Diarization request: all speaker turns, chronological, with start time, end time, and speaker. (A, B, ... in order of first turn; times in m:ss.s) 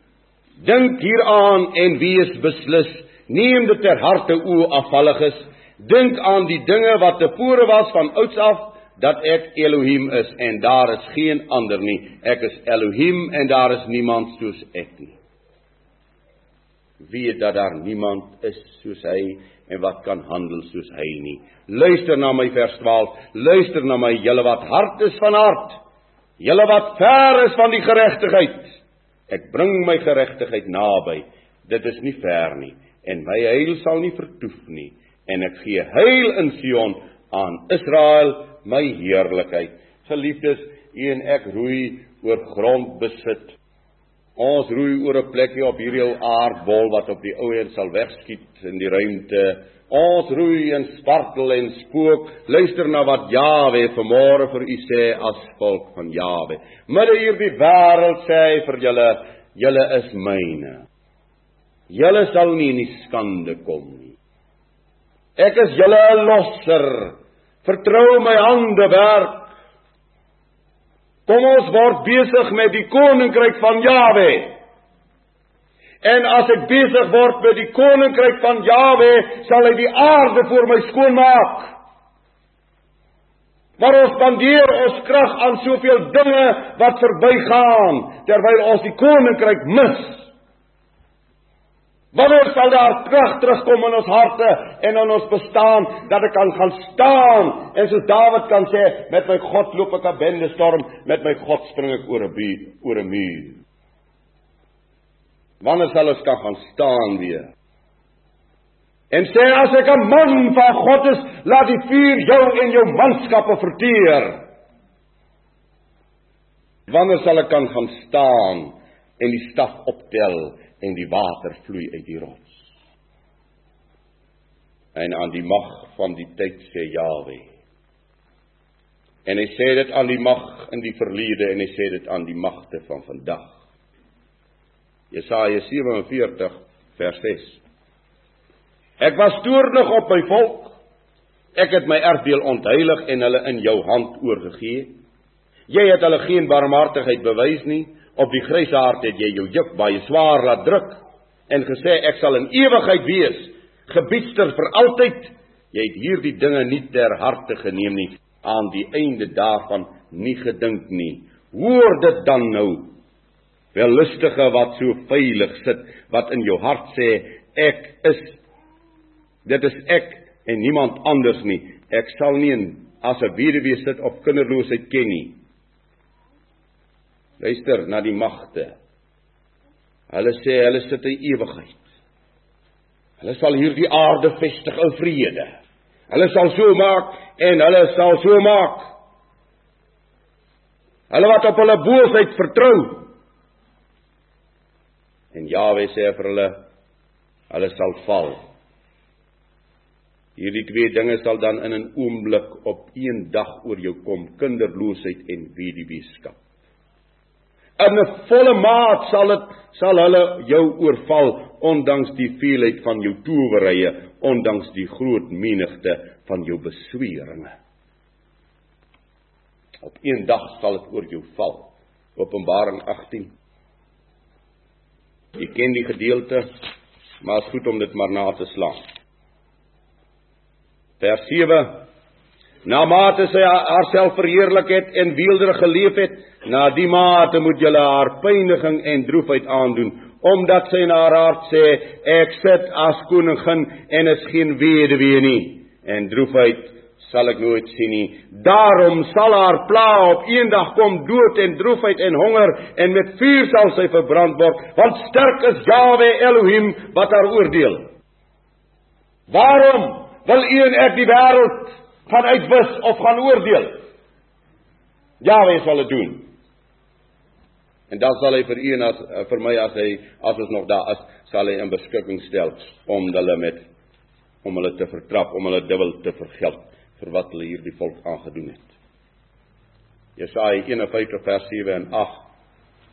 0:00.6-0:15.2 A
0:17.0-0:25.8 A
0:26.4-0:28.8 A
0:29.3-0:43.6 A
0:44.4-1:00.8 A
1:01.9-1:04.2 A
1:05.4-1:09.5 A
1:11.3-1:14.5 A
1:16.0-1:21.8 A
1:23.8-1:30.3 A
1:32.1-1:43.6 A
1:45.6-1:47.5 A
1:49.1-1:54.4 A
1:56.9-2:02.6 A
2:04.9-2:07.5 A
2:09.2-2:13.5 A
2:15.1-2:17.6 A
2:19.0-2:20.8 A
2:21.5-2:24.9 A
2:25.7-2:42.9 A
2:43.7-2:48.4 A
2:49.4-2:55.4 A
2:57.4-2:58.7 A
3:00.1-3:01.8 A
3:03.2-3:05.5 A
3:06.1-3:08.9 A
3:11.1-3:13.1 A
3:15.3-3:16.6 A
3:17.5-3:18.4 A
3:20.4-3:26.4 A
3:27.8-3:37.5 A
3:39.8-3:43.3 A
3:45.4-3:46.4 A
3:47.2-3:48.8 A
3:51.0-3:51.9 A
3:52.6-4:17.9 A
4:19.3-4:23.8 A
4:25.2-4:26.3 A
4:27.9-4:33.6 A
4:34.4-4:38.7 A
4:40.2-4:42.2 A